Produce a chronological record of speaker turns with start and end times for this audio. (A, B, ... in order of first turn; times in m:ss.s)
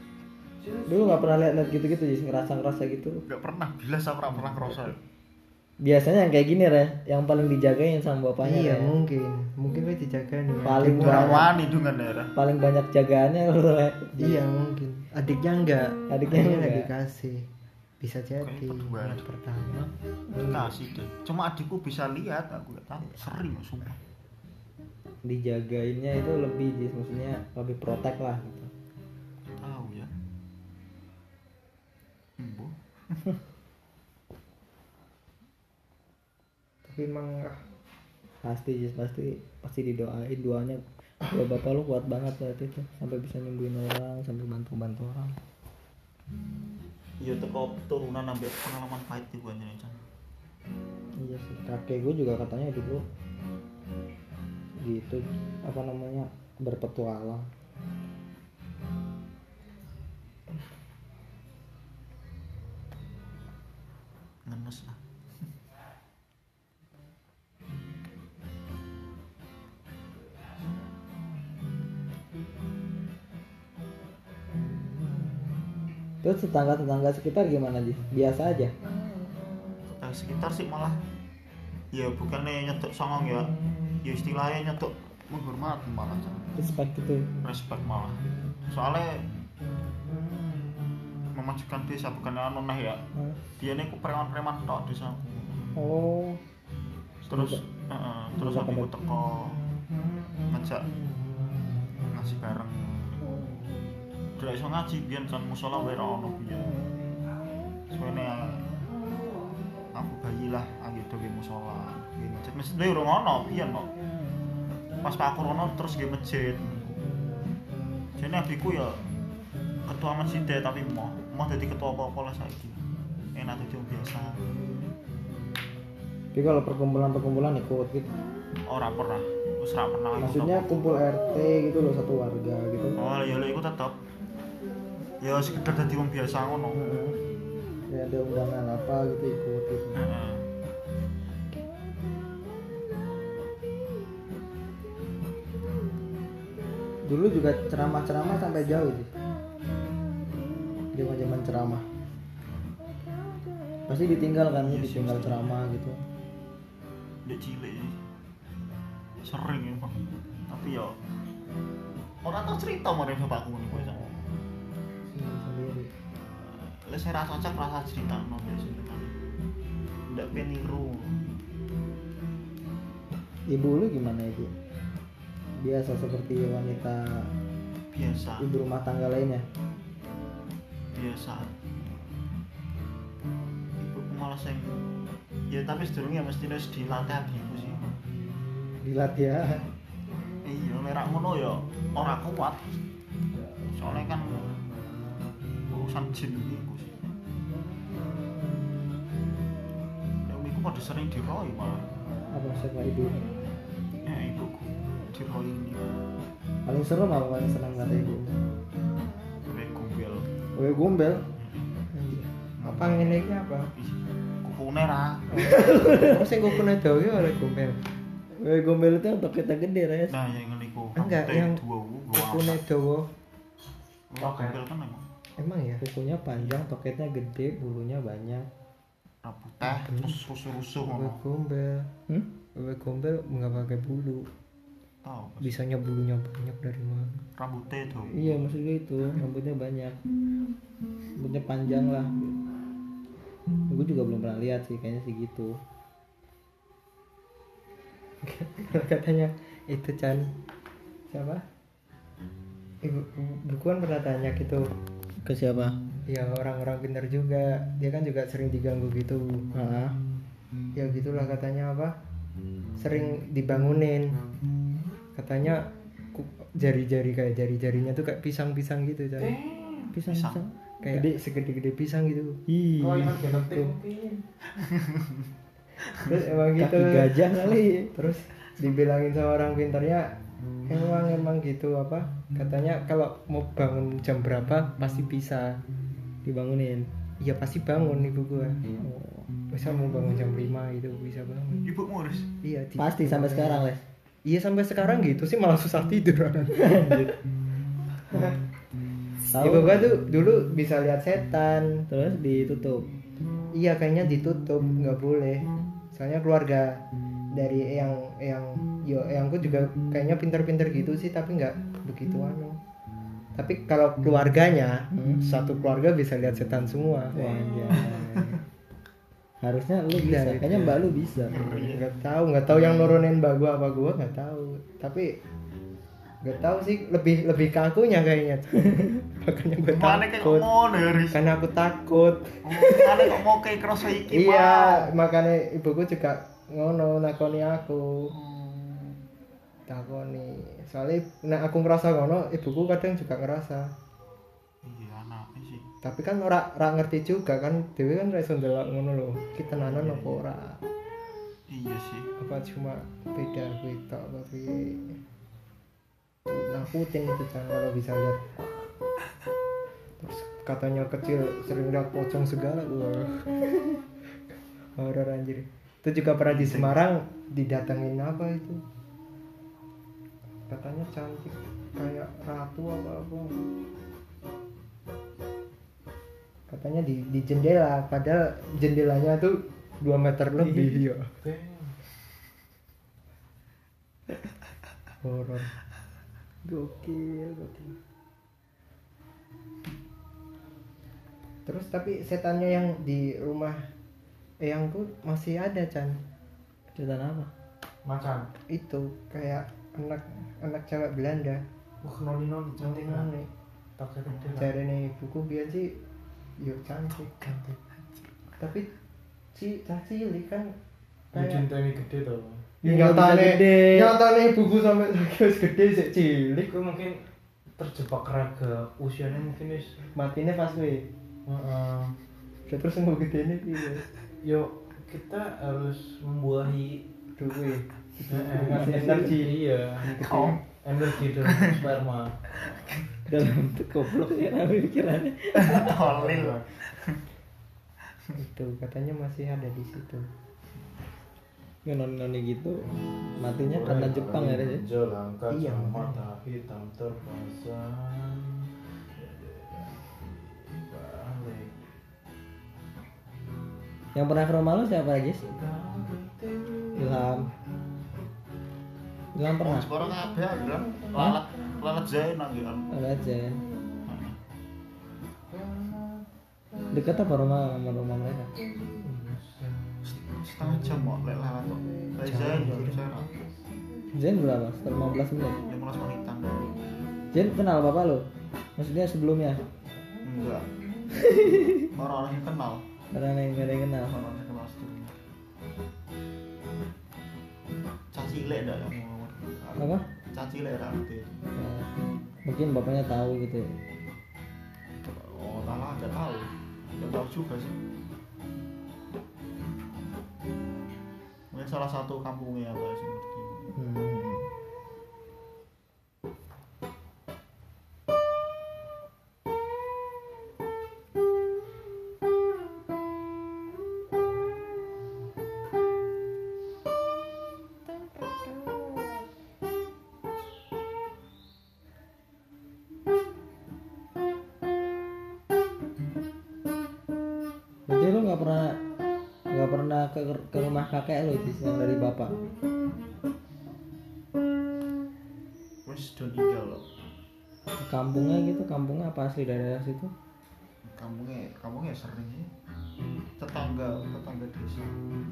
0:00.6-0:00.9 A
0:00.9-0:03.2 B
0:03.3-0:05.0 C
0:05.8-0:08.9 B
0:08.4-0:11.5 D
0:10.6-0:11.5 B
0:10.8-0:12.3 C
0:12.4-0:14.4 B
0:14.2-0:17.5 D
0:16.1-0:16.9 B
0:18.0-0:19.9 D
0:18.4-0:19.2 C
0:20.3-0:20.7 B
0:20.4-0:24.0 C
0:25.2-0:28.7 B
0:29.4-0:30.1 C
0:32.4-0:33.2 C
0:36.8-0:37.6 D
0:38.4-0:45.4 B
0:47.2-0:50.0 C
0:51.2-0:53.0 B
0:54.8-0:57.5 B
1:04.5-1:05.0 C
1:16.2-1:18.7 B
1:19.9-1:21.0 C
1:21.9-1:26.5 C
1:26.6-1:27.3 B
1:27.4-1:29.3 C
1:31.3-1:33.0 C
1:33.6-1:35.7 C
1:35.8-1:36.4 B
1:37.2-1:39.6 C
1:37.3-1:37.6 B
1:38.4-1:38.9 B
1:40.5-1:40.9 C
1:42.1-1:43.6 C
1:44.4-1:46.8 C
1:47.9-1:48.7 C
1:49.9-1:53.9 C
1:55.0-1:57.0 C
1:58.2-1:59.0 C
1:59.9-2:02.8 C
2:03.4-2:04.4 C
2:06.3-2:08.2 B
2:08.7-2:11.0 C
2:10.2-2:13.0 B
2:13.0-2:14.0 C
2:15.2-2:16.8 C
2:16.7-2:17.2 B
2:17.9-2:20.0 B
2:20.0-2:20.4 C
2:27.0-2:29.1 B
2:30.9-2:31.9 B
2:33.9-2:36.0 B
2:34.6-2:35.6 C
2:37.2-2:38.0 C
2:39.2-2:41.0 C
2:42.2-2:44.2 C
2:45.1-2:45.9 B
2:46.4-2:49.1 C
2:50.1-2:51.2 C
2:53.5-2:54.5 B
2:55.6-2:57.3 B
2:57.9-2:58.5 C
2:58.4-2:59.4 B
3:00.9-3:01.5 C
3:03.8-3:04.8 C
3:05.5-3:08.0 C
3:08.8-3:09.6 B
3:10.4-3:12.7 C
3:13.7-3:14.6 C
3:15.7-3:17.2 C
3:20.3-3:21.9 C
3:22.3-3:23.2 B
3:24.0-3:26.0 C
3:26.7-3:28.4 B
3:29.5-3:30.3 C
3:30.6-3:31.2 B
3:31.4-3:31.7 C
3:31.9-3:33.7 D
3:32.6-3:33.2 C
3:33.8-3:35.5 C
3:35.3-3:37.9 D
3:35.3-3:36.2 B
3:38.4-3:40.2 B
3:40.1-3:42.6 C
3:41.0-3:41.6 D
3:42.1-3:43.1 D
3:44.1-3:45.1 C
3:44.2-3:44.6 A
3:45.4-3:45.8 D
3:45.8-3:48.5 B
3:49.2-3:51.2 C
3:49.7-3:50.2 D
3:50.8-3:51.9 D
3:52.6-3:54.3 D
3:55.0-3:55.6 C
3:55.4-3:57.2 D
3:57.4-3:58.5 C
3:58.1-4:00.0 B
4:01.2-4:02.4 B
4:03.7-4:05.6 B
4:08.2-4:10.3 D
4:11.1-4:11.4 D
4:12.8-4:14.7 D
4:15.2-4:15.8 B
4:16.1-4:19.5 D
4:19.5-4:20.0 B
4:20.8-4:21.9 D
4:22.8-4:24.2 D
4:25.2-4:29.4 D
4:29.2-4:29.9 A
4:29.9-4:31.0 B
4:30.0-4:30.4 C
4:30.8-4:32.4 D
4:32.5-4:33.7 B
4:32.8-4:34.3 A
4:34.6-4:35.2 C
4:36.0-4:37.3 D
4:36.6-4:37.9 B
4:37.9-4:40.1 D
4:40.7-4:45.6 D
4:46.2-4:46.9 B
4:47.2-4:48.6 D
4:48.8-4:49.3 B
4:49.5-4:51.7 D
4:51.6-4:52.3 C
4:52.4-4:53.7 D
4:52.8-4:53.8 B
4:54.2-4:57.1 D
4:56.6-4:57.1 B
4:58.1-4:58.4 D
4:59.2-4:59.9 B
4:59.4-5:01.9 D
5:01.9-5:02.9 B
5:03.5-5:12.6 D
5:13.4-5:18.0 D
5:14.9-5:15.2 B
5:17.1-5:18.3 B
5:19.4-5:21.5 B
5:19.9-5:20.9 D
5:21.3-5:21.9 C
5:21.4-5:25.2 D
5:26.2-5:30.5 D
5:29.7-5:31.3 C
5:31.1-5:33.2 D
5:32.4-5:34.9 C
5:34.0-5:38.1 D
5:38.1-5:39.0 C
5:39.7-5:43.7 D
5:44.6-5:45.7 C
5:45.8-5:50.6 D
5:49.6-5:50.2 C
5:51.5-5:52.1 C
5:52.2-5:55.0 D
5:56.3-5:58.2 D
6:00.0-6:03.3 D
6:04.8-6:08.6 D
6:06.2-6:06.8 C
6:10.5-6:13.4 D
6:16.5-6:21.1 D
6:20.4-6:20.7 B
6:21.2-6:21.8 A
6:25.0-6:25.5 D
6:26.4-6:27.7 B
6:31.5-6:33.7 D
6:34.4-6:36.0 D
6:36.8-6:37.3 B
6:37.8-6:38.3 A
6:38.5-6:41.4 D
6:41.8-6:43.1 A
6:42.6-6:43.3 D
6:43.8-6:44.5 A
6:44.1-6:44.4 C
6:44.4-6:45.8 D
6:46.4-6:47.4 D
6:47.0-6:48.1 C
6:48.4-6:48.7 D
6:49.3-6:50.6 D
6:51.1-6:51.5 D
6:51.1-6:52.5 A
6:52.6-6:56.5 D
6:52.6-6:53.9 B
6:56.4-6:59.9 A
6:59.9-7:00.9 D
7:01.3-7:02.0 A
7:02.5-7:03.8 D
7:04.2-7:06.8 A
7:07.2-7:10.4 D
7:08.1-7:10.0 A
7:08.5-7:09.1 B
7:09.8-7:10.4 C
7:10.6-7:12.2 A
7:11.1-7:11.6 C
7:12.5-7:12.8 C
7:13.1-7:15.8 B
7:15.4-7:17.0 C
7:15.6-7:16.5 A
7:18.1-7:20.1 D
7:21.6-7:24.6 B
7:23.4-7:31.7 A
7:25.3-7:26.0 D
7:34.0-7:35.2 B
7:35.2-7:37.2 A
7:36.8-7:37.3 B
7:39.1-7:39.7 B
7:39.4-7:42.7 C
7:39.8-7:41.2 A
7:42.7-7:43.4 B
7:43.8-7:44.2 C
7:45.3-7:47.0 A
7:46.7-7:48.3 B
7:48.4-7:51.0 A
7:49.8-7:53.1 C
7:52.0-7:52.8 D
7:53.9-7:55.4 B
7:55.4-7:56.6 C
7:57.1-7:59.4 B
8:00.0-8:00.5 C
8:00.9-8:01.7 B
8:01.7-8:02.6 C
8:02.9-8:03.9 B
8:03.9-8:05.0 C
8:07.9-8:11.2 C
8:09.6-8:09.8 B
8:11.4-8:11.7 B
8:12.2-8:13.5 B
8:14.8-8:17.6 C
8:21.3-8:23.5 C
8:23.5-8:24.3 B
8:47.7-8:48.6 B
8:49.3-8:52.2 B
8:55.6-8:56.6 C
8:57.6-8:59.9 B
9:00.6-9:02.3 C
9:03.2-9:04.7 C